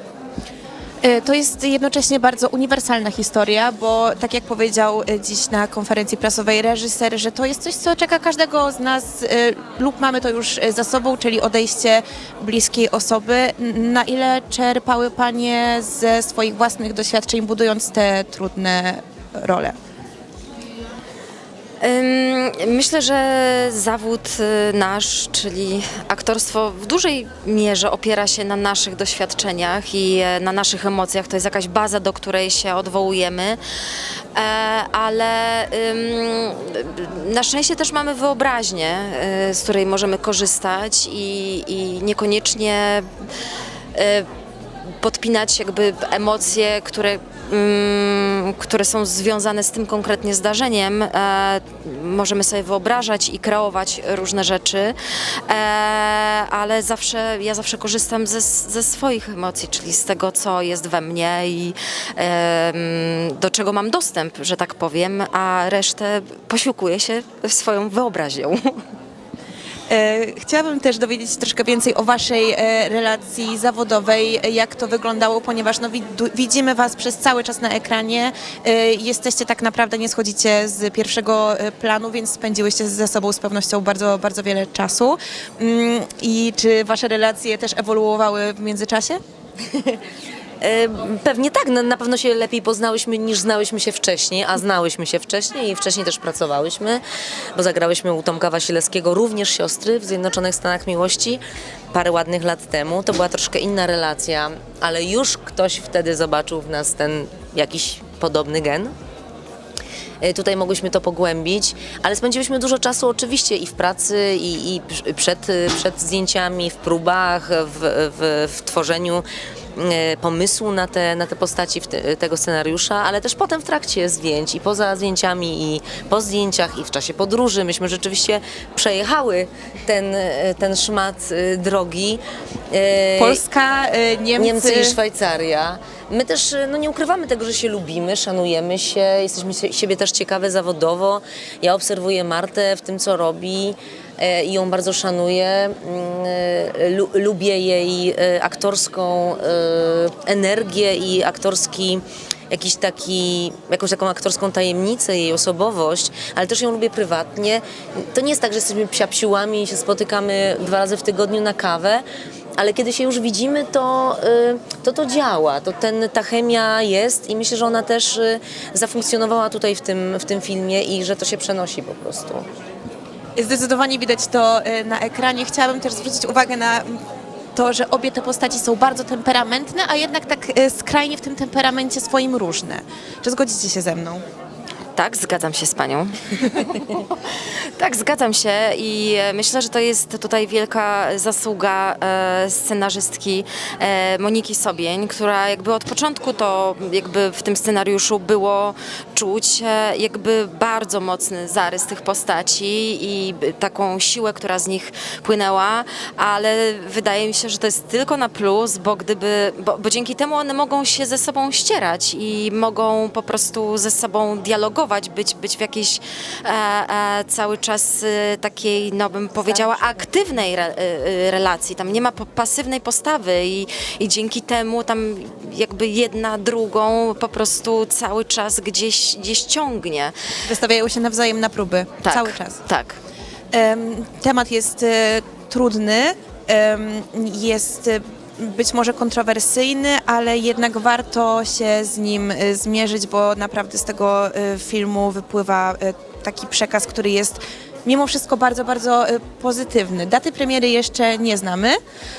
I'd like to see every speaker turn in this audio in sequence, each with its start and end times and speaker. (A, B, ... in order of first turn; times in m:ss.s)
0:01.0-0:19.7 A
0:21.8-0:33.6 B
0:34.3-0:43.1 B
0:43.9-0:44.3 B
0:44.8-0:54.9 B
0:55.4-1:08.8 B
1:09.9-1:29.2 A
1:30.6-1:37.0 C
1:37.5-1:41.4 C
1:41.9-1:48.9 C
1:50.2-2:12.2 C
2:12.7-2:13.4 C
2:13.2-2:15.0 A
2:14.4-2:42.0 C
2:42.6-2:52.4 C
2:53.4-2:57.0 A
2:57.5-3:04.2 A
3:05.0-3:50.1 B
3:39.4-3:40.0 C
3:50.4-3:52.6 A
3:52.0-3:53.0 B
3:53.5-4:11.8 A